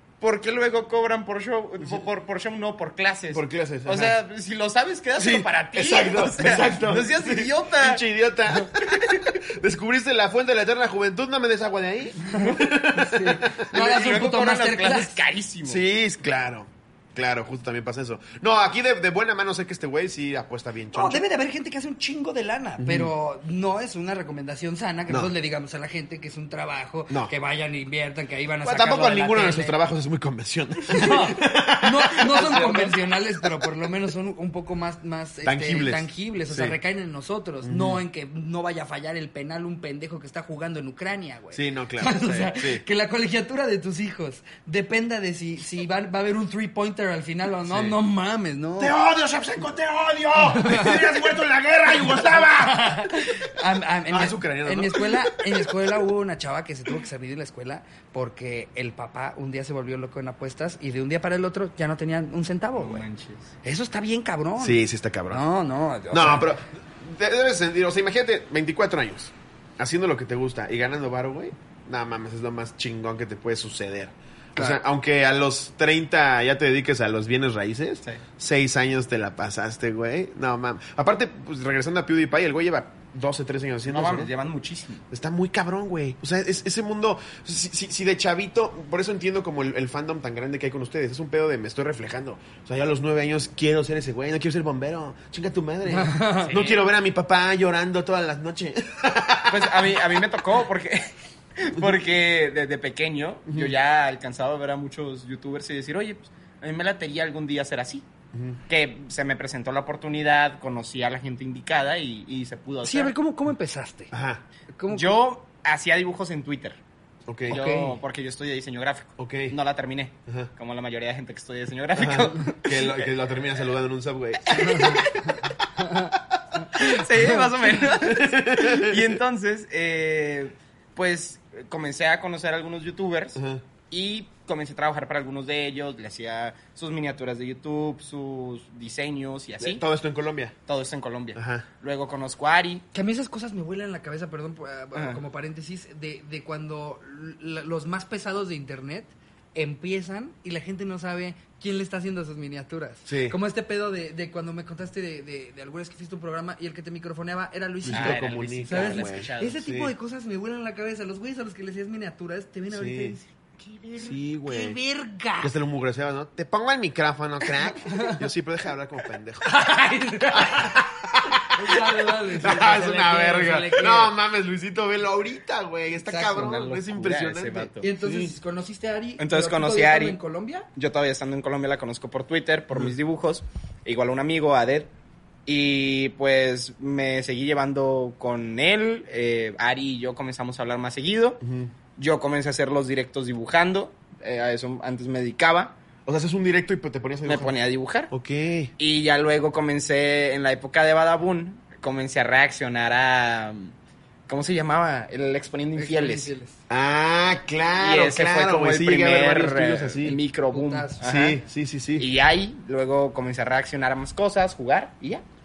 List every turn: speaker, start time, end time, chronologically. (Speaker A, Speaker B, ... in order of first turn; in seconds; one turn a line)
Speaker A: 0.2-8.0
Speaker B: 3.3-4.2
Speaker B: 5.2-13.7
Speaker A: 8.8-9.2
Speaker C: 12.9-15.2
Speaker A: 13.7-15.8
Speaker B: 15.6-21.2
Speaker C: 20.9-29.8
Speaker B: 22.8-23.1
Speaker B: 28.6-33.0
Speaker C: 30.9-48.9
Speaker B: 35.4-36.8
Speaker B: 37.6-38.0
Speaker B: 41.5-42.8
Speaker B: 47.7-48.0
Speaker B: 48.8-53.1
Speaker C: 50.5-51.0
Speaker C: 52.5-63.0
Speaker B: 54.1-56.0
Speaker A: 62.8-63.5
Speaker C: 63.6-66.5
Speaker B: 64.6-65.4
Speaker B: 66.1-84.3
Speaker A: 83.9-85.0
Speaker B: 85.1-99.9
Speaker C: 95.8-96.5
Speaker A: 96.4-96.8
Speaker A: 99.5-108.0
Speaker B: 103.5-103.7
Speaker B: 108.3-108.6
Speaker A: 108.7-113.1
Speaker C: 112.8-114.1
Speaker B: 114.1-114.4
Speaker C: 114.8-115.2
Speaker A: 114.9-116.8
Speaker B: 117.3-117.6
Speaker A: 117.5-123.1
Speaker C: 117.5-118.0
Speaker B: 119.2-119.5
Speaker B: 122.0-125.0
Speaker A: 124.5-125.3
Speaker C: 124.6-125.0
Speaker C: 125.8-126.1
Speaker A: 126.7-139.8
Speaker B: 128.0-129.1
Speaker B: 133.3-133.6
Speaker B: 139.6-140.5
Speaker A: 140.7-142.8
Speaker B: 141.3-141.7
Speaker C: 142.9-165.5
Speaker A: 144.9-145.2
Speaker B: 153.1-153.4
Speaker B: 157.8-159.9
Speaker A: 157.9-159.6
Speaker B: 162.7-163.2
Speaker B: 164.0-164.8
Speaker B: 165.4-169.6
Speaker C: 167.9-168.2
Speaker C: 169.4-170.8
Speaker B: 170.3-178.3
Speaker C: 171.4-174.1
Speaker C: 176.1-176.4
Speaker A: 176.2-177.8
Speaker C: 177.8-180.7
Speaker A: 179.2-180.2
Speaker A: 180.8-184.9
Speaker A: 185.4-191.4
Speaker B: 191.4-191.7
Speaker A: 192.0-195.7
Speaker B: 196.1-197.5
Speaker A: 197.2-198.1
Speaker B: 198.1-198.7
Speaker A: 198.8-203.7
Speaker A: 204.3-206.3
Speaker C: 205.8-206.6
Speaker B: 206.7-210.2
Speaker A: 207.8-211.4
Speaker C: 210.5-211.1
Speaker B: 211.0-212.1
Speaker A: 212.0-215.2